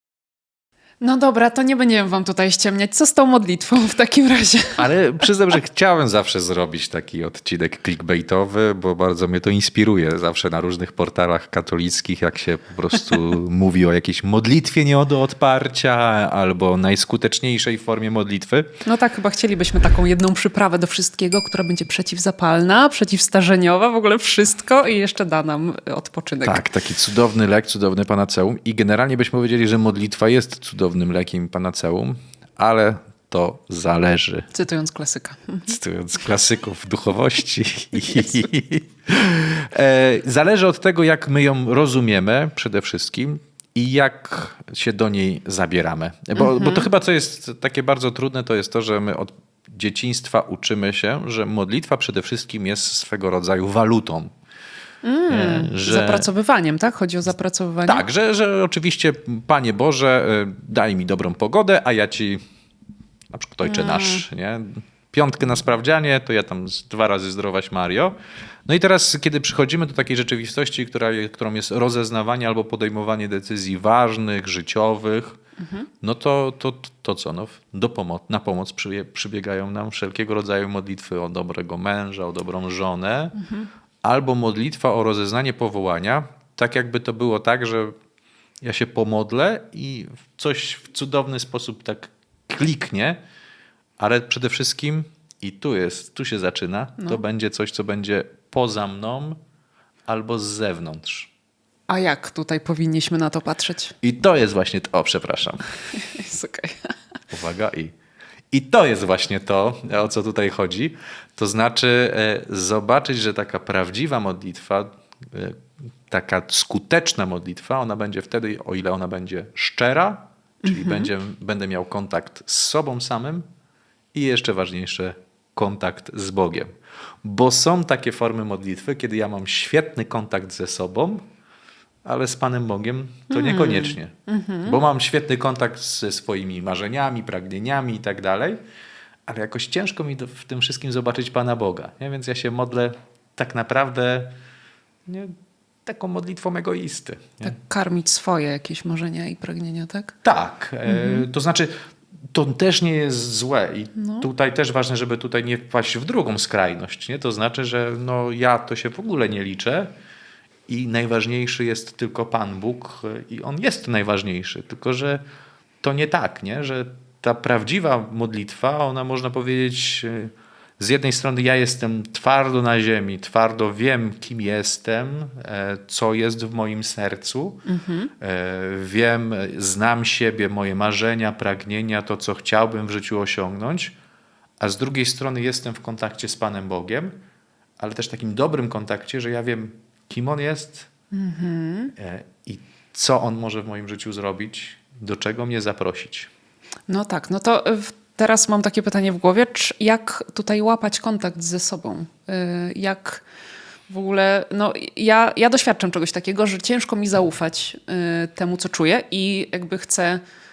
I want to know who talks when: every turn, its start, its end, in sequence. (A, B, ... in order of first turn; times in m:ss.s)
0:01.0-0:04.9 A
0:04.8-0:18.7 B
0:18.8-0:26.6 A
0:26.4-0:34.5 B
0:34.5-0:35.7 A
0:35.7-0:54.3 B
0:46.4-0:46.9 A
0:55.0-0:58.0 A
0:55.3-0:56.3 B
0:57.9-1:02.4 B
1:03.3-1:15.4 B
1:03.6-1:04.2 A
1:16.0-1:23.4 B
1:23.4-1:23.7 A
1:24.0-1:27.9 B
1:28.6-1:33.2 B
1:34.0-1:39.4 B
1:40.1-1:41.3 B
1:41.9-1:43.9 A
1:44.0-1:45.6 B
1:45.9-1:46.9 A
1:47.3-1:47.9 B
1:48.5-2:03.4 B
2:00.6-2:01.1 A
2:04.1-2:06.7 B
2:07.2-2:11.2 B
2:12.0-2:18.6 B
2:13.3-2:14.8 A
2:19.3-2:24.3 B
2:25.0-2:25.3 B
2:25.8-2:27.5 B
2:27.4-2:30.1 A
2:30.2-2:31.7 B
2:30.8-2:31.3 A
2:32.3-2:39.9 B
2:34.0-2:34.3 A
2:40.7-2:45.2 B
2:45.8-2:57.6 B
2:57.7-2:58.1 A
2:58.2-3:03.9 B
3:04.6-3:07.1 B
3:07.8-3:10.9 B
3:11.1-3:11.9 A
3:12.0-3:16.3 B
3:16.9-3:23.2 A
3:23.9-3:30.2 A